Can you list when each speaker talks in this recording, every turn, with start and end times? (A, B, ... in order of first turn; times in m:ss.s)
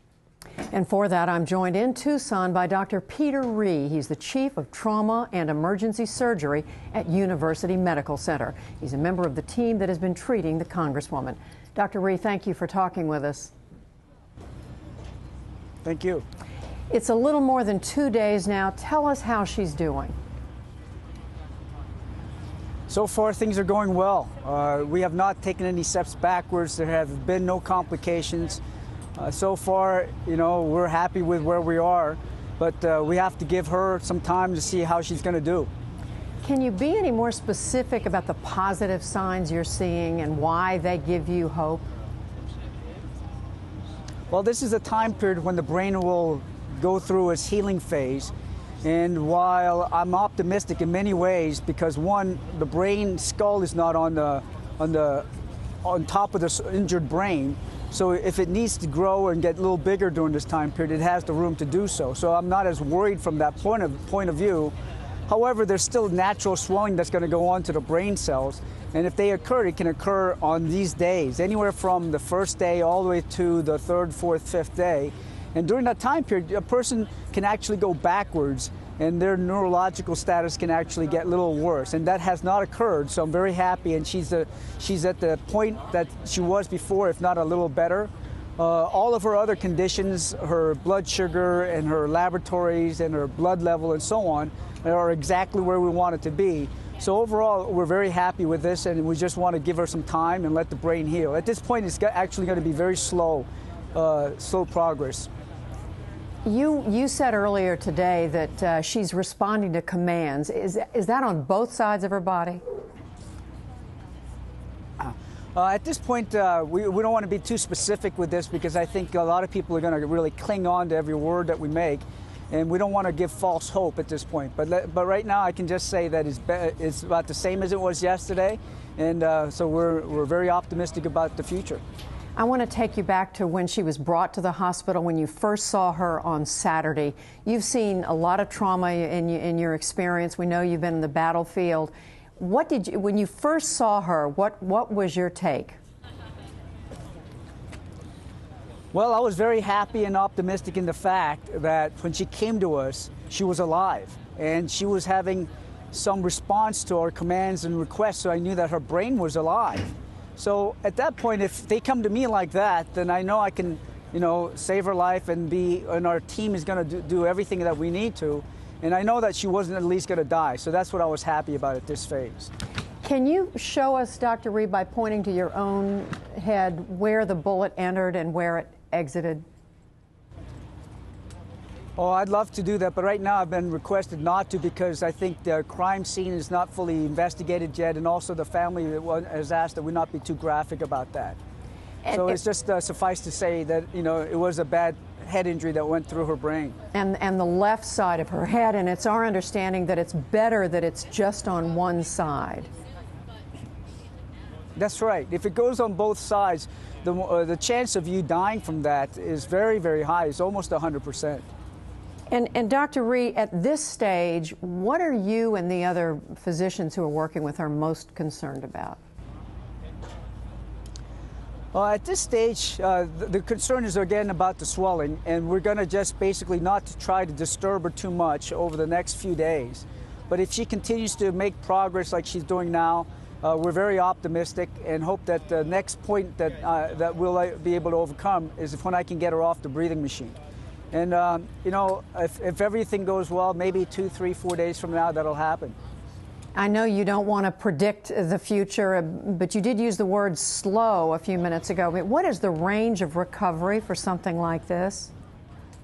0:00.7-0:13.5 A
0:15.8-0:16.2 B
0:16.9-0:20.1 A
0:22.9-0:28.6 B
0:29.2-0:35.7 B
0:36.4-0:41.8 A
0:44.3-0:48.3 B
0:48.8-0:55.3 B
0:55.8-1:04.7 B
1:05.3-1:45.3 B
1:46.4-1:52.6 A
1:55.0-2:11.8 B
2:12.4-2:25.8 A
2:28.9-2:52.5 B
2:53.0-2:59.4 A
3:02.0-3:11.4 B
3:12.0-3:12.4 A
3:12.1-3:16.8 B
3:16.9-3:22.7 A
3:24.8-3:31.4 B
3:32.3-3:39.0 A
3:41.7-4:00.4 B
4:00.9-4:05.8 B
4:06.5-4:15.1 A